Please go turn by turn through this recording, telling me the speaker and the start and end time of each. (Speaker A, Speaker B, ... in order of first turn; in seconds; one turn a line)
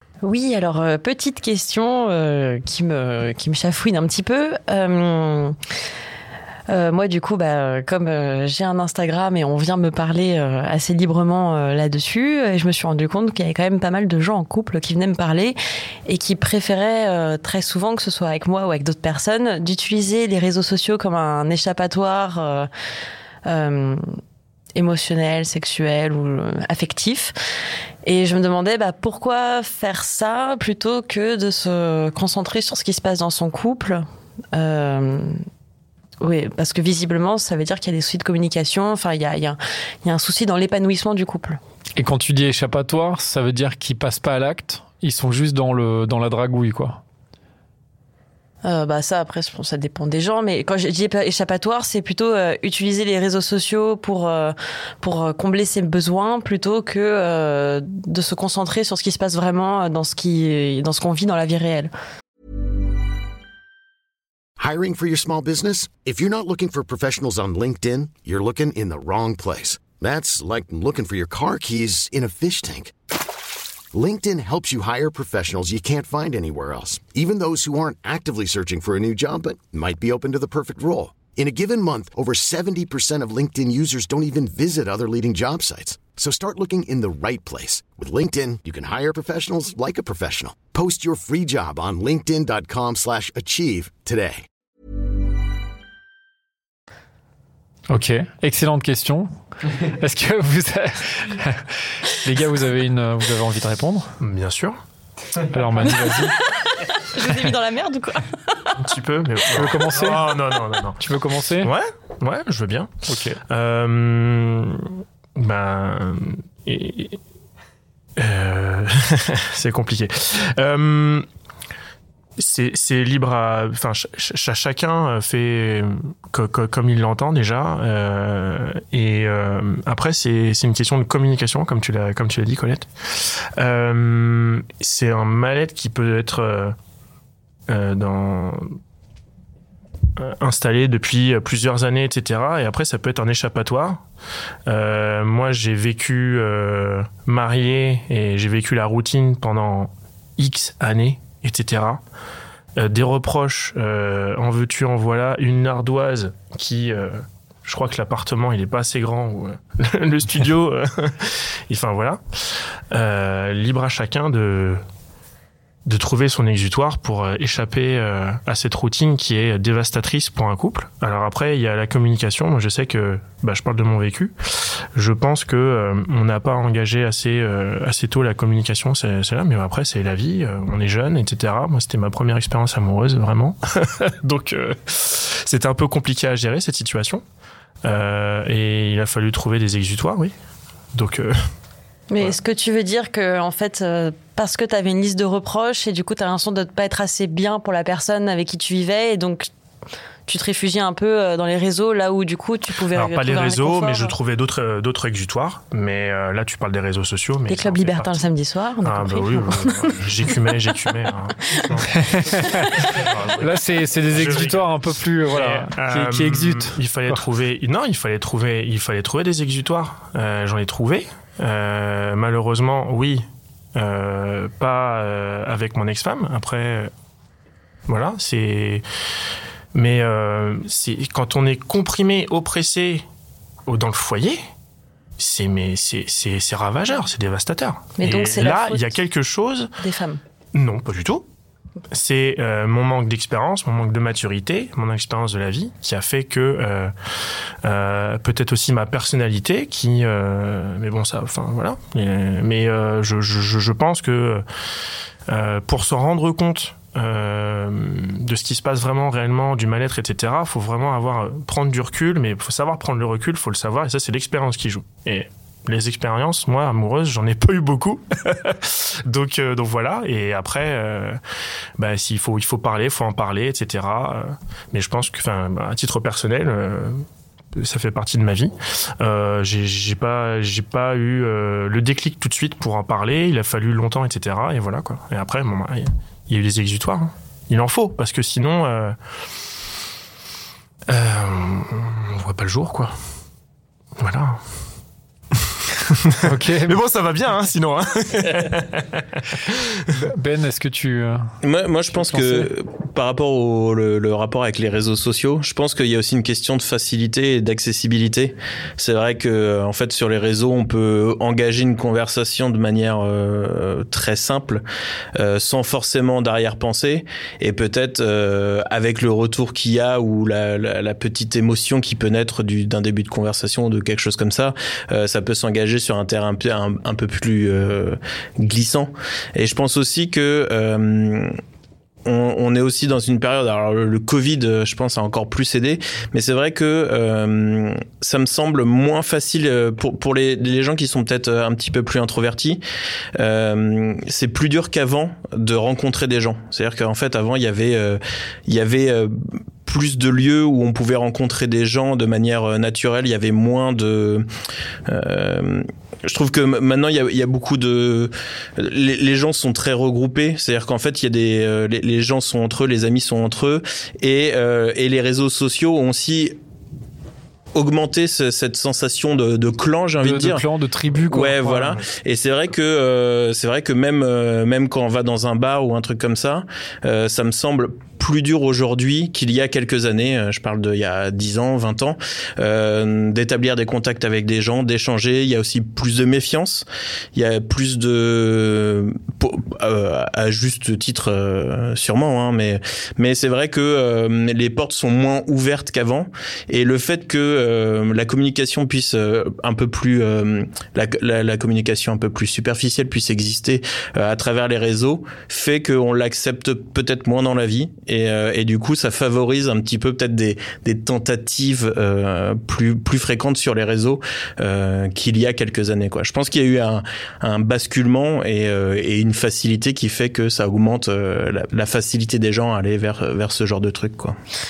Speaker A: 0.2-5.5
Speaker A: 6.7-22.7
Speaker A: 23.5-24.0
Speaker A: 24.8-27.3
Speaker A: 28.1-34.0
Speaker A: 34.5-35.3
Speaker A: 36.2-41.6
Speaker B: 42.0-47.0
Speaker A: 48.6-61.9
Speaker C: 64.6-72.9
Speaker C: 73.9-94.4
Speaker B: 97.9-104.1
Speaker D: 104.2-104.8
Speaker B: 105.5-106.3
Speaker A: 107.0-108.5
Speaker D: 108.8-111.0
Speaker B: 109.5-110.3
Speaker B: 111.0-111.7
Speaker D: 111.6-112.9
Speaker B: 113.1-113.4
Speaker D: 113.5-117.2
Speaker D: 118.2-121.3
Speaker D: 122.4-136.8
Speaker D: 137.7-138.8
Speaker D: 140.2-144.0
Speaker D: 144.7-152.0
Speaker D: 152.8-162.2
Speaker D: 162.9-164.8
Speaker D: 165.9-174.3
Speaker D: 174.9-187.2
Speaker D: 187.8-190.3
Speaker D: 190.9-191.3
Speaker A: 192.1-199.5
Speaker A: 200.3-204.2
Speaker D: 202.9-208.2
Speaker A: 207.5-210.1
Speaker D: 208.8-211.9
Speaker B: 211.8-217.2
Speaker D: 212.9-213.4
Speaker D: 214.1-223.2
Speaker D: 223.8-226.9
Speaker D: 227.9-228.8
Speaker D: 229.7-233.0
Speaker D: 233.7-234.4
Speaker D: 235.2-239.7
Speaker A: 238.0-239.0
Speaker A: 239.8-240.2
Speaker D: 240.6-241.3
Speaker D: 241.9-246.9
Speaker D: 247.6-254.4
Speaker D: 255.3-271.2
Speaker D: 271.8-289.0
Speaker D: 290.9-293.0
Speaker D: 294.0-294.4
Speaker D: 295.3-299.7
Speaker B: 296.2-296.8
Speaker B: 299.9-301.2
Speaker E: 301.4-314.6
Speaker B: 301.9-302.5
Speaker E: 315.2-331.4
Speaker E: 332.1-342.6
Speaker E: 343.2-354.2
Speaker E: 354.9-366.4
Speaker E: 367.5-370.5
Speaker B: 370.0-371.8
Speaker E: 371.0-424.2